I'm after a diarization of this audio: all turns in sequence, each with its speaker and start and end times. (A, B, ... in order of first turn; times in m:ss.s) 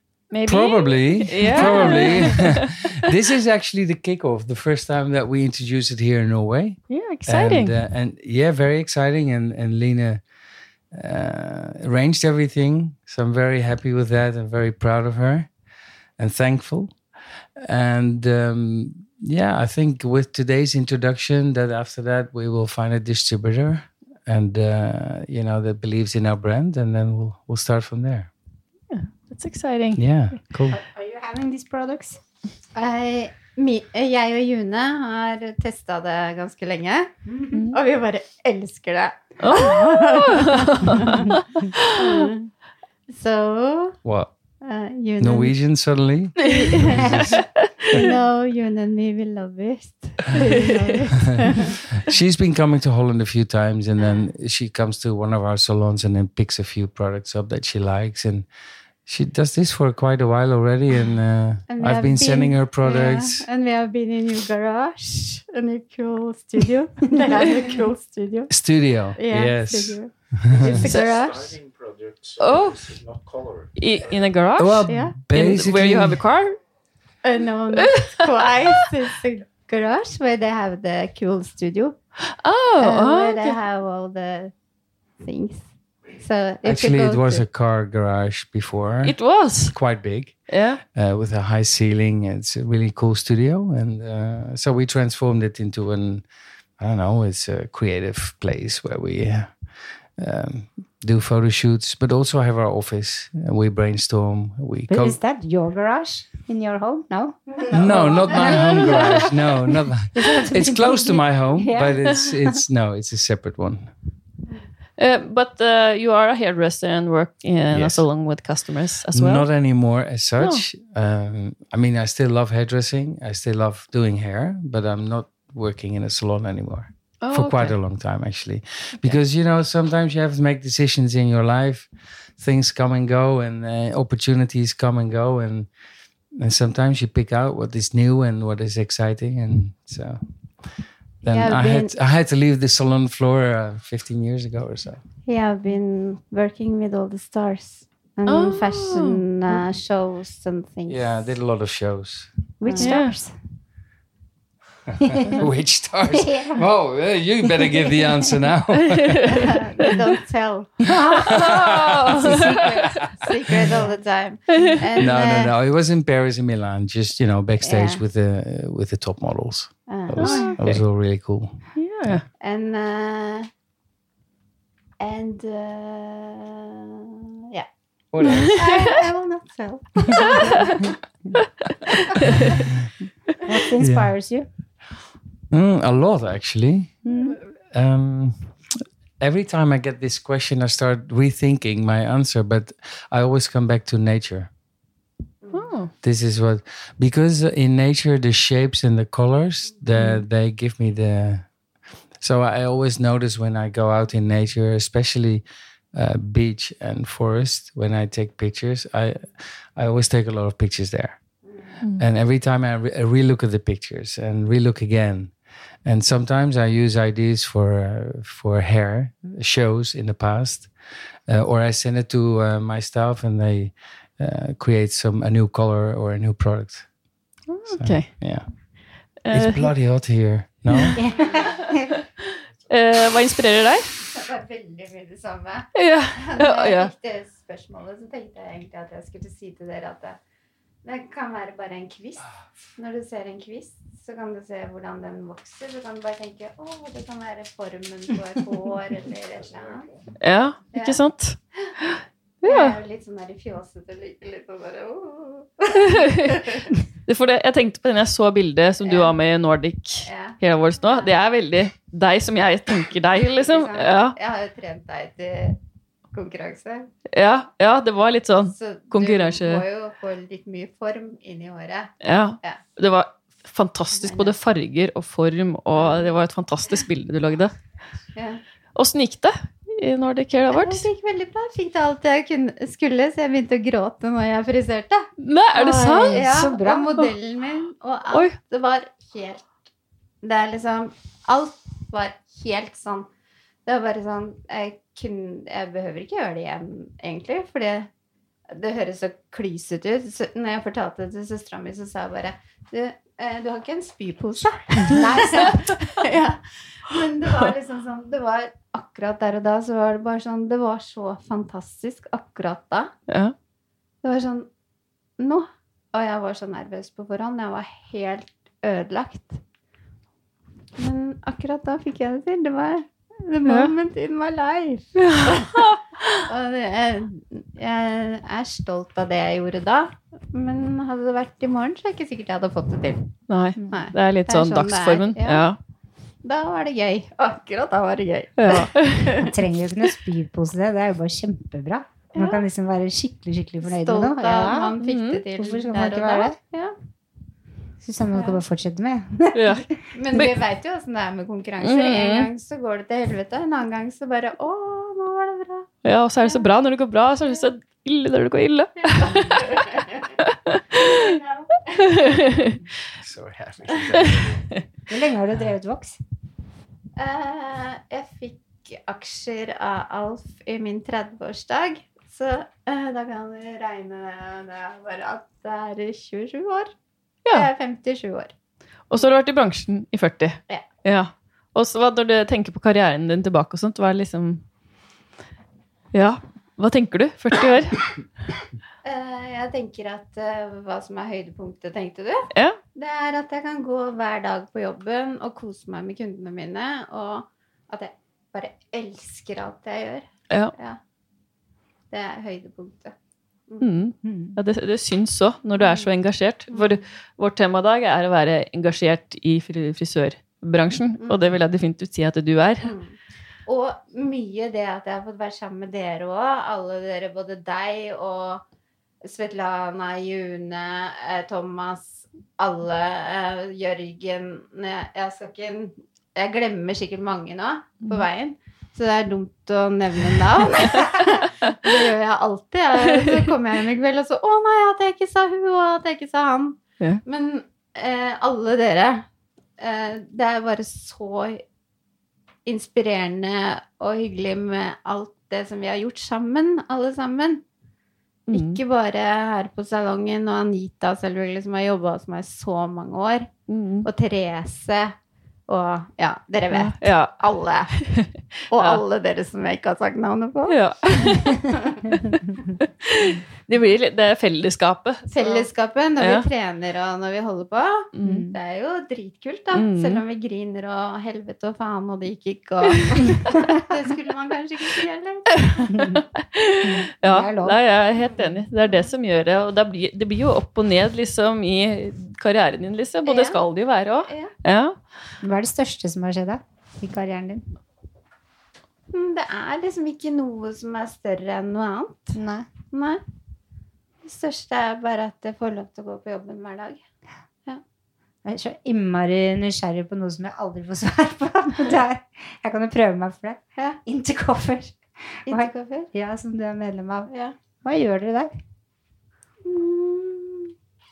0:00.3-0:03.0 A
0:00.5-0:10.2 B
0:06.9-0:07.8 A
0:10.9-0:15.5 B
0:16.2-0:17.0 B
0:17.6-0:28.3 B
0:28.9-0:30.0 A
0:30.0-0:30.8 B
0:30.7-0:32.2 C
0:32.7-0:37.1 D
0:37.3-0:37.6 C
0:37.5-0:37.8 A
0:37.7-0:41.4 D
0:39.4-0:42.3 A
0:42.0-0:42.5 D
0:43.1-0:44.0 D
0:44.0-0:44.3 B
0:44.6-0:45.5 D
0:45.2-0:48.1 B
0:46.4-0:48.1 A
0:46.4-0:47.3 D
0:47.9-0:51.9 D
0:50.4-0:51.1 A
0:51.2-0:58.5 B
0:59.1-1:03.5 B
1:01.7-1:08.5 D
1:08.5-1:10.8 B
1:09.2-1:11.6 D
1:10.5-1:14.3 E
1:12.4-1:13.0 A
1:13.8-1:16.6 A
1:14.6-1:16.2 B
1:14.9-1:15.2 D
1:17.2-1:22.0 D
1:17.8-1:18.8 A
1:22.3-1:23.6 A
1:22.8-1:24.5 D
1:25.2-1:27.4 D
1:26.6-1:30.4 B
1:29.0-1:29.8 A
1:30.5-1:30.8 A
1:30.9-1:36.2 B
1:36.8-1:39.5 B
1:40.2-1:45.2 B
1:44.9-1:52.6 C
1:47.7-1:53.9 B
1:55.0-1:59.5 A
1:57.7-1:58.0 B
1:59.1-2:15.7 B
2:07.2-2:07.8 A
2:16.4-2:20.2 B
2:21.2-2:25.0 B
2:21.2-2:21.9 D
2:25.3-2:31.3 D
2:28.3-2:29.2 A
2:30.9-2:32.3 B
2:32.6-2:33.1 D
2:32.6-2:33.3 C
2:32.8-2:33.2 A
2:34.9-2:39.4 B
2:35.0-2:35.4 C
2:36.1-2:36.6 C
2:38.8-2:39.9 A
2:39.3-2:40.9 D
2:40.8-2:41.4 C
2:41.0-2:43.8 B
2:41.2-2:43.0 A
2:42.3-2:45.5 D
2:44.5-2:44.8 A
2:45.0-2:52.2 B
2:47.6-2:48.0 D
2:49.9-2:50.6 D
2:50.2-2:50.8 A
2:51.8-2:52.2 A
2:52.4-2:53.5 D
2:55.0-2:57.7 D
2:58.1-2:58.7 B
2:58.2-2:58.9 A
2:58.3-3:00.9 D
3:00.2-3:00.8 A
3:01.4-3:02.6 A
3:03.4-3:04.5 C
3:03.8-3:04.1 B
3:05.5-3:07.0 B
3:07.0-3:07.4 C
3:07.7-3:08.5 B
3:09.2-3:14.5 B
3:15.5-3:15.9 A
3:16.0-3:21.5 B
3:22.2-3:31.2 B
3:32.0-3:35.3 B
3:35.8-3:40.7 B
3:41.3-3:46.9 B
3:47.5-3:48.1 A
3:47.7-3:48.5 B
3:49.2-3:49.7 A
3:49.3-3:51.1 B
3:50.7-3:51.0 A
3:51.0-3:51.9 C
3:51.2-3:51.6 D
3:51.7-3:52.0 A
3:52.7-3:53.9 A
3:54.0-4:00.2 D
3:55.8-3:56.9 A
4:00.8-4:02.3 D
4:02.8-4:09.9 D
4:10.2-4:12.8 A
4:10.7-4:11.0 D
4:12.4-4:16.8 D
4:15.8-4:16.4 A
4:17.1-4:24.2 A
4:18.8-4:19.2 D
4:20.0-4:21.1 D
4:23.2-4:25.6 D
4:26.1-4:26.9 D
4:27.1-4:29.6 A
4:28.5-4:32.6 D
4:32.0-4:37.5 A
4:34.0-4:34.3 D
4:38.2-4:38.4 D
4:38.8-4:40.9 A
4:40.5-4:49.5 D
4:45.2-4:46.4 A
4:46.0-4:47.1 C
4:50.2-4:53.1 D
4:53.6-4:57.9 D
4:58.5-5:12.9 D
5:04.8-5:05.7 C
5:13.1-5:13.3 A
5:14.0-5:14.5 D
5:15.2-5:19.4 D
5:20.8-5:25.6 D
5:23.4-5:23.7 A
5:25.0-5:26.2 A
5:26.3-5:33.1 D
5:33.3-5:35.6 A
5:33.7-5:35.5 D
5:36.2-5:39.3 D
5:38.4-5:39.2 A
5:39.2-5:44.7 C
5:42.2-5:42.4 D
5:43.6-5:46.8 D
5:44.8-5:45.2 A
5:45.4-5:46.4 C
5:47.8-5:49.6 C
5:48.1-5:48.4 D
5:49.3-5:50.3 A
5:49.9-5:55.7 D
5:51.6-5:52.3 A
5:55.8-5:59.5 A
5:58.9-6:00.2 D
6:00.2-6:01.1 A
6:00.8-6:01.8 D
6:01.7-6:02.6 A
6:03.0-6:04.5 B
6:04.0-6:04.6 A
6:04.9-6:06.0 C
6:07.0-6:16.7 D
6:17.3-6:18.3 D
6:18.9-6:24.4 A
6:25.9-6:27.9 A
6:28.8-6:40.8 D
6:32.3-6:32.6 A
6:41.9-6:43.0 D
6:43.6-6:52.7 A
6:44.0-6:44.4 C
6:45.6-6:45.9 D
6:46.5-6:46.8 D
6:51.0-6:51.3 D
6:52.6-6:58.4 D
6:59.0-7:19.1 D
7:19.6-7:21.4 D
7:22.5-7:27.4 D
7:28.3-7:28.6 A
7:28.3-7:33.3 D
7:33.5-7:33.9 A
7:33.8-7:35.0 D
7:35.5-7:37.8 D
7:36.5-7:37.2 A
7:37.8-7:38.8 A
7:38.5-7:42.0 D
7:40.5-7:41.4 A
7:42.1-7:45.5 A
7:45.1-7:55.9 D
7:46.0-7:46.3 A
7:47.9-7:48.3 A
7:48.0-7:48.3 C
7:49.5-7:50.0 A
7:55.4-8:04.8 A
7:55.7-7:56.0 C
7:56.6-7:57.6 C
7:58.0-7:58.4 D
8:03.1-8:03.4 D
8:05.2-8:07.4 C
8:08.9-8:12.2 D
8:12.2-8:12.5 C
8:12.7-8:13.0 D
8:14.0-8:16.8 D
8:18.2-8:28.3 C
8:25.3-8:25.9 D
8:27.1-8:27.4 D
8:29.4-8:30.5 D